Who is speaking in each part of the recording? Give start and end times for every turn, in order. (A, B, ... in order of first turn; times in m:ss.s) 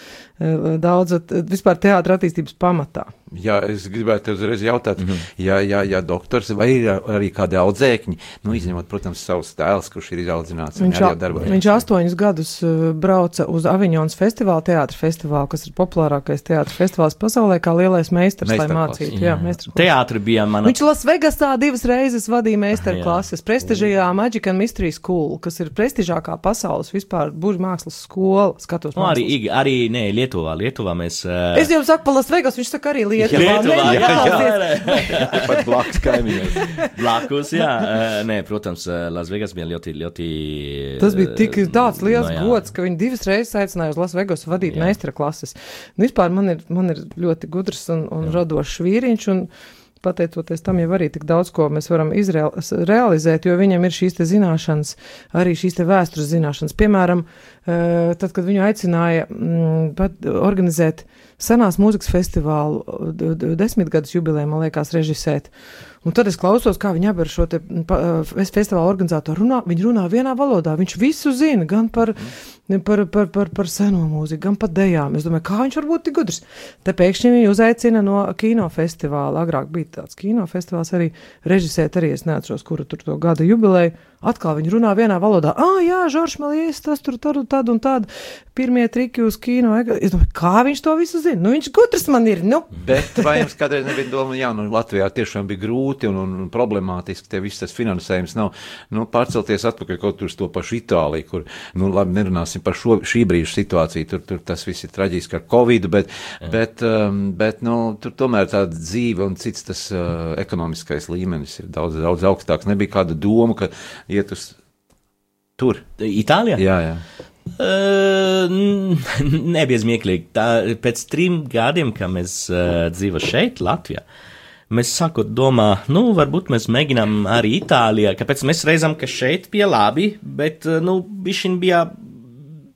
0:00.4-0:03.1 A
0:03.3-0:11.8 B
0:10.8-0:19.9 A
0:18.4-0:19.1 B
0:19.1-0:20.7 C
0:20.6-0:29.3 A
0:22.8-0:23.2 C
0:29.0-0:31.7 C
0:31.5-0:36.9 A
0:33.3-0:36.8 B
0:33.3-0:35.6 C
0:36.8-0:42.6 C
0:41.0-0:49.5 A
0:44.7-0:45.0 C
0:50.0-1:05.5 A
1:06.0-1:33.4 A
1:32.8-1:54.6 B
1:55.6-1:55.8 B
1:56.0-1:56.6 C
1:56.6-1:57.0 B
1:57.5-2:04.0 C
2:04.7-2:12.1 C